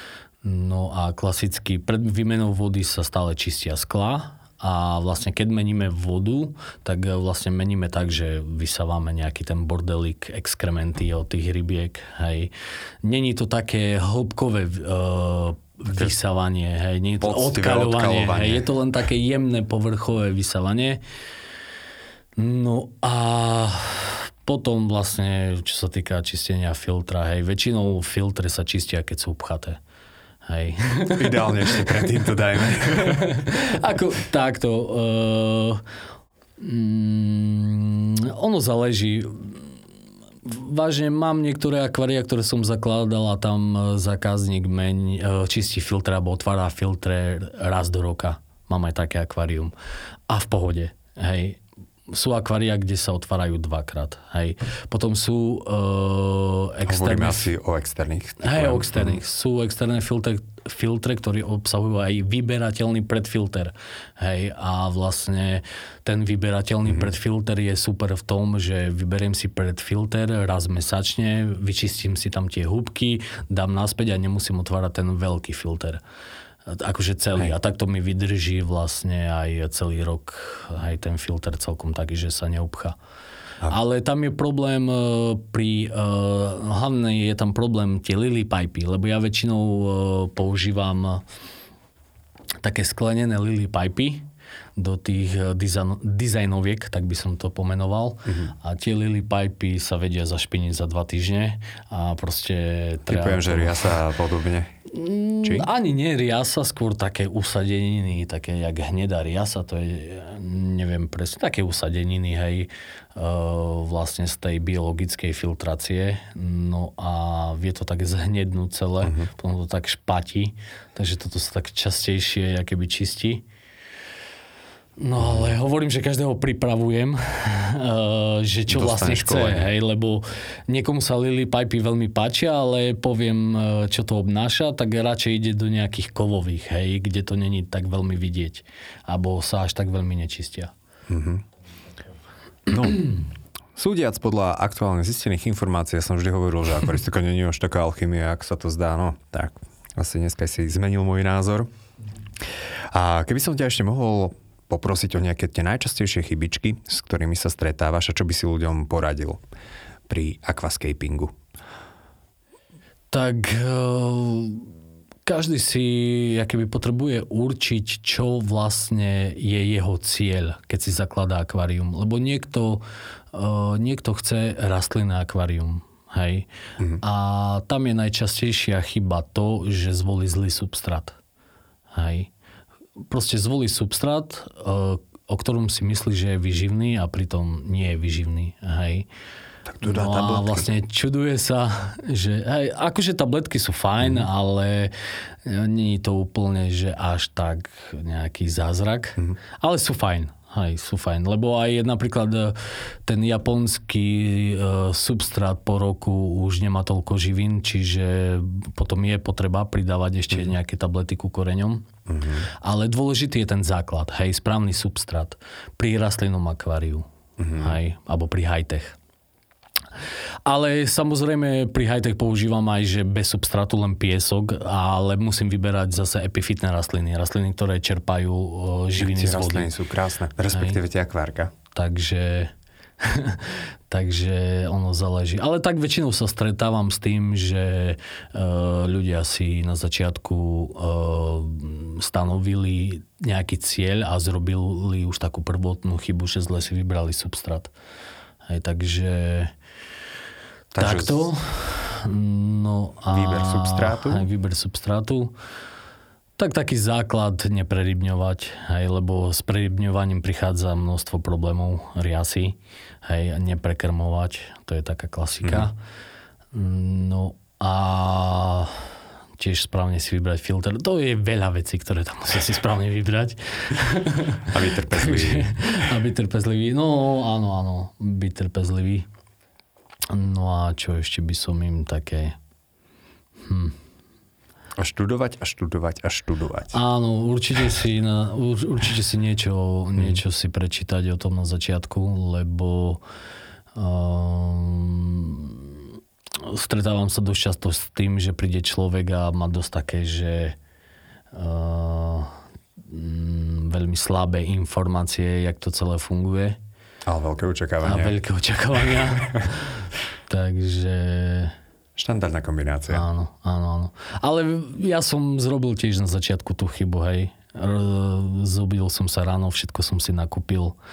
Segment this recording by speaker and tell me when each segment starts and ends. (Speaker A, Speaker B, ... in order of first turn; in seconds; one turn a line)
Speaker A: 0.4-12.5
Speaker A: 13.0-21.0
Speaker B: 17.2-18.6
Speaker A: 22.4-29.8
Speaker A: 30.5-35.8
Speaker B: 31.1-33.4
Speaker A: 36.6-39.7
Speaker A: 40.5-49.7
Speaker A: 50.3-51.6
Speaker A: 52.1-57.5
Speaker B: 56.9-59.2
Speaker A: 58.4-76.0
Speaker A: 76.7-83.0
Speaker A: 83.7-91.2
Speaker A: 92.6-103.8
Speaker B: 98.3-98.5
Speaker B: 103.1-104.8
Speaker A: 104.9-123.5
Speaker B: 105.4-105.7
Speaker B: 119.0-119.3
Speaker A: 125.0-140.7
Speaker B: 125.2-125.5
Speaker B: 128.7-129.7
Speaker B: 141.1-141.4
Speaker B: 142.7-143.2
Speaker B: 143.7-151.7
Speaker B: 152.9-159.4
Speaker B: 160.1-161.3
Speaker A: 163.1-164.7
Speaker A: 165.3-176.5
Speaker A: 177.0-181.2
Speaker A: 181.9-182.3
Speaker A: 183.1-189.1
Speaker B: 189.7-190.7
Speaker A: 189.8-194.9
Speaker A: 195.4-211.9
Speaker B: 212.1-212.5
Speaker A: 212.6-217.1
Speaker B: 217.4-217.8
Speaker A: 217.6-219.0
Speaker A: 220.4-229.7
Speaker B: 229.0-231.5
Speaker A: 230.5-230.8
Speaker A: 231.7-247.7
Speaker A: 248.5-249.5
Speaker B: 250.7-251.3
Speaker A: 250.8-255.3
Speaker B: 253.1-254.2
Speaker A: 256.4-265.8
Speaker B: 265.4-265.7
Speaker A: 266.5-268.8
Speaker A: 269.4-279.1
Speaker B: 274.5-275.6
Speaker A: 280.1-282.4
Speaker A: 283.5-283.8
Speaker B: 284.8-286.8
Speaker A: 286.7-293.0
Speaker A: 293.7-295.8
Speaker A: 296.4-300.6
Speaker A: 301.3-306.6
Speaker B: 307.1-308.2
Speaker A: 307.8-311.6
Speaker B: 312.0-313.1
Speaker A: 312.9-320.8